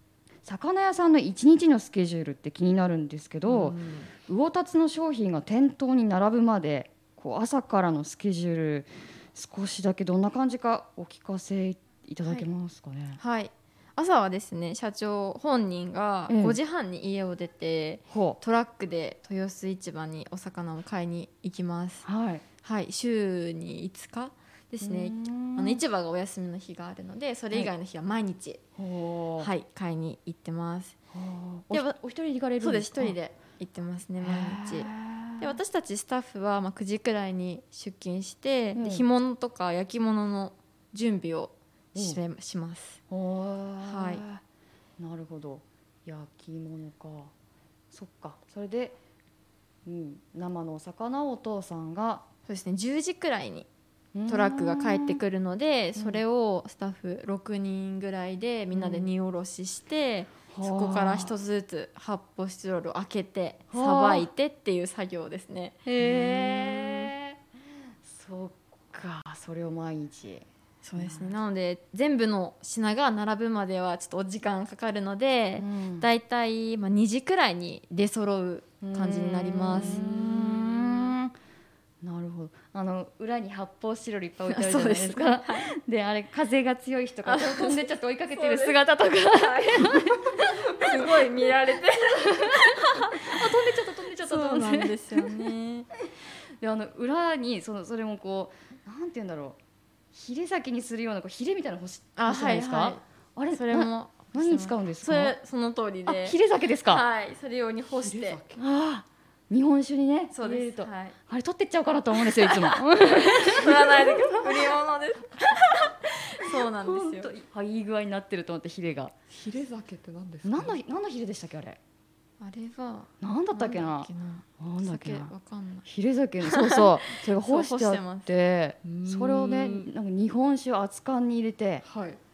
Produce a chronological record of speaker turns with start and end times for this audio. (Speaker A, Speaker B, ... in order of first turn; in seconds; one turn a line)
Speaker A: 0.4-13.2
Speaker B: 3.5-4.1
Speaker C: 13.2-22.0
Speaker A: 16.3-16.6
Speaker A: 18.1-18.4
Speaker A: 22.0-22.4
Speaker C: 22.6-28.6
Speaker A: 24.8-25.8
Speaker A: 28.8-29.5
Speaker C: 29.4-30.9
Speaker A: 31.1-33.2
Speaker C: 32.6-43.0
Speaker A: 34.2-35.5
Speaker A: 38.7-39.0
Speaker A: 41.9-42.2
Speaker A: 43.1-44.4
Speaker C: 43.8-44.2
Speaker A: 45.0-47.3
Speaker A: 47.9-49.0
Speaker A: 49.8-52.2
Speaker C: 52.5-53.7
Speaker A: 54.1-55.2
Speaker C: 54.3-67.0
Speaker A: 55.9-56.2
Speaker A: 58.7-59.1
Speaker A: 60.5-61.3
Speaker A: 63.7-64.3
Speaker A: 66.0-67.3
Speaker A: 68.0-71.3
Speaker C: 70.8-80.0
Speaker A: 75.6-76.1
Speaker A: 78.8-81.3
Speaker B: 79.8-80.5
Speaker A: 82.0-91.2
Speaker C: 84.5-85.7
Speaker C: 87.2-88.8
Speaker C: 89.3-93.4
Speaker A: 92.2-95.3
Speaker C: 94.2-95.9
Speaker A: 96.6-99.6
Speaker A: 100.1-105.3
Speaker C: 102.2-106.4
Speaker A: 106.0-107.0
Speaker C: 106.9-108.4
Speaker B: 108.0-108.6
Speaker A: 108.5-114.7
Speaker C: 110.3-111.2
Speaker C: 112.3-117.3
Speaker A: 116.7-119.1
Speaker B: 119.3-120.8
Speaker A: 120.4-121.8
Speaker C: 122.4-125.9
Speaker A: 123.2-125.3
Speaker A: 125.8-131.8
Speaker C: 126.4-128.3
Speaker B: 128.8-129.9
Speaker B: 131.8-132.2